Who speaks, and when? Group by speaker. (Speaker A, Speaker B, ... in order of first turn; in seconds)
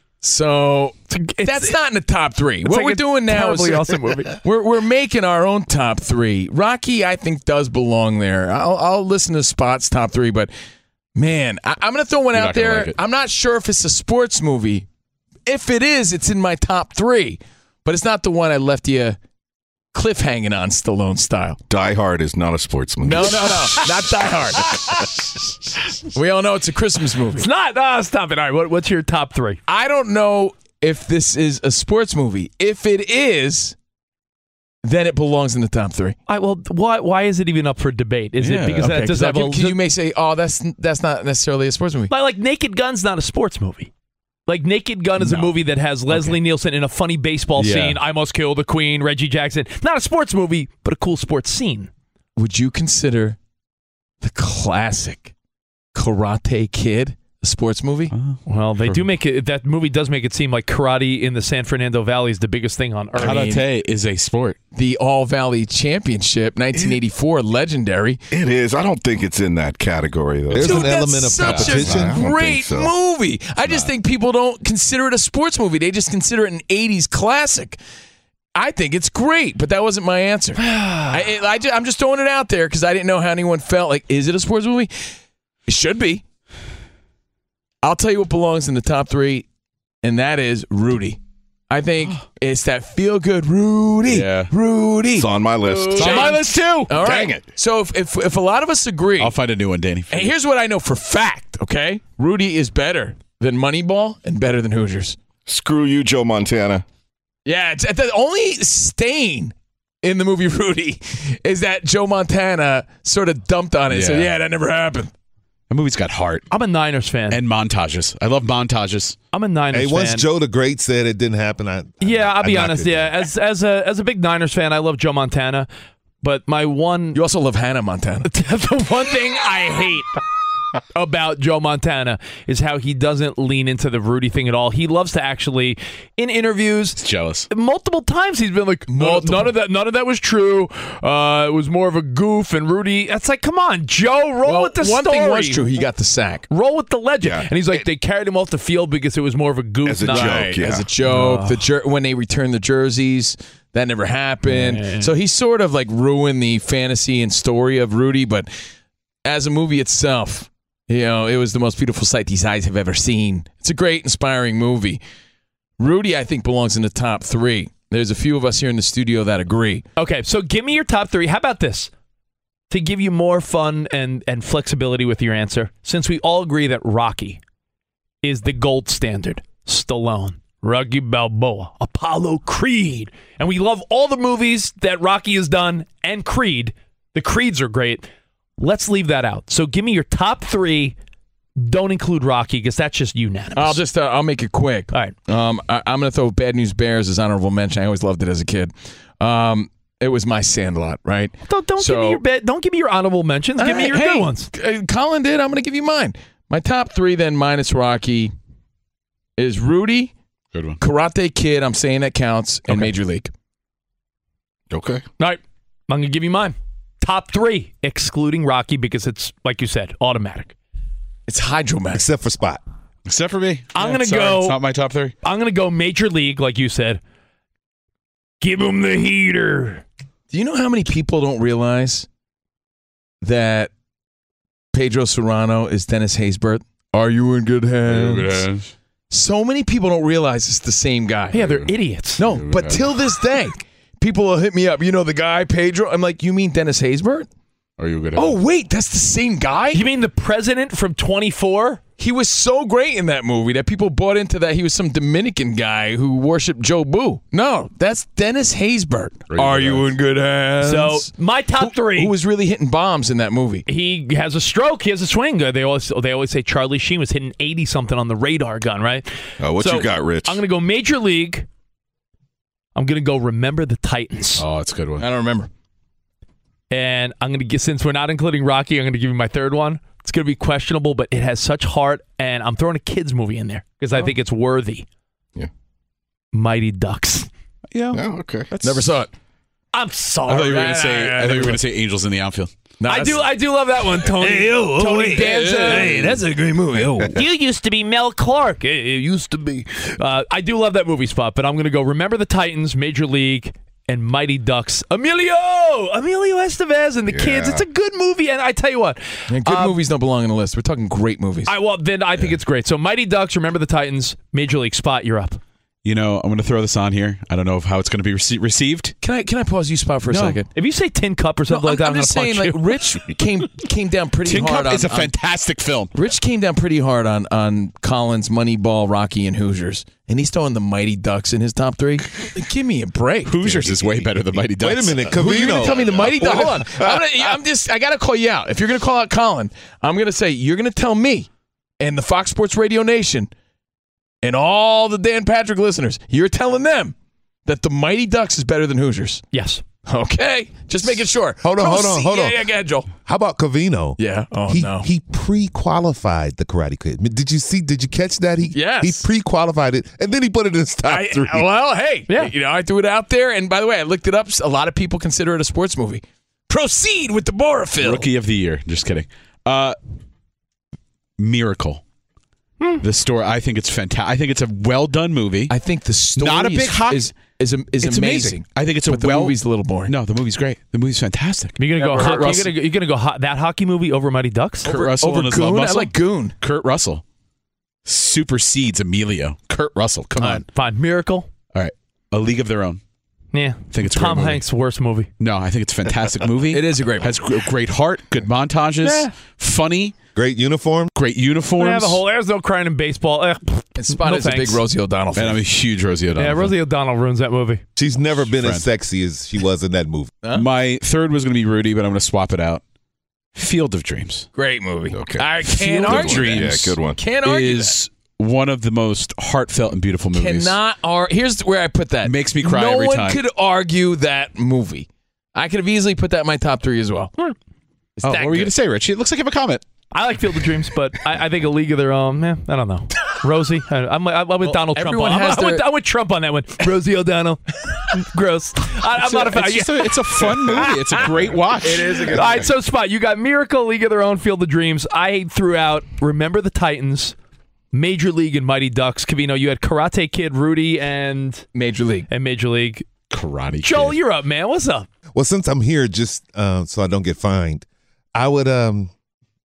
Speaker A: 0.2-10.5, 11.2-14.9, 15.5-19.2, 19.9-21.6, 23.0-24.9, 26.1-27.4, 29.7-33.8, 34.8-36.2, 38.8-42.1, 52.4-53.4, 54.2-55.3, 56.0-58.1, 63.2-63.6, 64.7-68.2, 70.5-77.8, 78.5-84.9, 85.7-86.2, 87.8-89.5, 90.0-91.2, 91.7-99.4, 100.1-105.2, 107.5-115.1, 127.1-128.3, 138.9-139.5, 144.4-146.5, 150.1-158.5, 159.2-165.0, 165.8-169.8, 193.6-202.2, 203.6-208.3, 209.4-210.1, 210.8-213.3, 221.3-222.0, 230.3-232.1, 233.2-233.7, 234.7-238.4, 239.1-241.4, 242.2-247.3, 248.2-249.8, 252.0-263.6, 275.0-275.5, 288.6-289.1, 290.5-291.6, 292.8-293.3, 294.0-297.2, 309.3-311.5, 319.0-320.5, 321.5-325.1, 325.9-334.1, 335.1-341.3, 341.8-343.3, 344.2-346.9, 347.5-349.2, 349.9-352.9, 354.0-354.9, 358.5-359.0, 360.9-368.1, 375.5-379.9, 384.6-386.4, 396.5-397.1, 403.8-405.4, 414.3-417.8, 420.1-427.1, 428.0-428.5, 434.4-435.6, 441.1-442.5, 451.6-452.1
Speaker B: 1.1-1.8, 2.6-4.4, 27.4-29.6, 36.3-39.8, 42.1-43.9, 44.5-51.9, 58.5-63.5, 80.6-81.2, 116.5-117.4, 119.3-120.3, 122.0-125.7, 126.2-127.2, 128.2-130.1, 130.9-145.7, 146.5-151.6, 154.5-155.1, 170.0-171.9, 172.7-177.4, 178.2-188.1, 188.6-191.0, 191.6-193.8, 201.4-204.5, 215.2-220.5, 223.7-224.6, 225.2-227.0, 228.4-229.8, 241.3-242.2, 249.7-251.8, 260.6-262.1, 263.7-271.5, 272.8-274.4, 276.7-284.9, 286.3-287.3, 289.7-291.6, 292.9-296.3, 297.1-309.8, 311.5-315.4, 320.5-322.7, 349.3-349.6, 381.6-384.7, 390.5-391.3, 393.3-395.1, 398.8-399.1, 401.6-404.6, 406.2-407.6, 429.9-441.1, 441.9-447.2, 447.7-451.5, 452.1-452.9, 453.6-454.9
Speaker C: 12.3-13.0, 38.4-38.9, 47.6-48.0, 58.1-59.0, 63.2-64.6, 71.4-72.0, 94.1-94.5, 95.9-97.0, 99.2-100.3, 113.9-114.3, 115.7-116.5, 117.3-119.2, 137.0-137.5, 210.5-210.8, 223.1-225.1, 237.8-238.7, 241.4-241.7, 242.2-242.9, 247.8-248.4, 259.3-259.9, 274.4-275.1, 287.7-288.0, 288.5-288.9, 290.3-292.5, 315.8-318.9, 320.1-320.4, 324.2-325.9, 333.2-335.6, 367.8-369.8, 371.2-371.8, 372.8-375.6, 376.2-377.1, 377.8-382.5, 384.6-387.0, 387.9-390.4, 391.5-392.8, 393.7-394.4, 395.2-400.0, 401.0-402.0, 405.2-406.5, 408.3-408.7, 410.3-412.6, 413.4-414.3, 415.4-420.6, 422.0-423.2, 428.0-429.6, 439.0-441.9, 453.1-454.0
Speaker D: 21.7-23.9, 68.3-70.9, 71.5-72.9, 95.2-96.2, 97.0-97.5, 105.5-106.8, 147.2-147.8, 149.8-150.9, 214.7-215.0, 269.4-270.4, 287.9-288.5, 307.1-307.6, 336.2-336.9, 414.9-417.0, 442.1-442.5
Speaker E: 70.5-72.3, 119.7-123.2, 221.9-222.6, 334.5-336.1, 351.4-352.5, 353.1-361.5, 400.2-400.9, 407.8-410.1, 455.1-458.9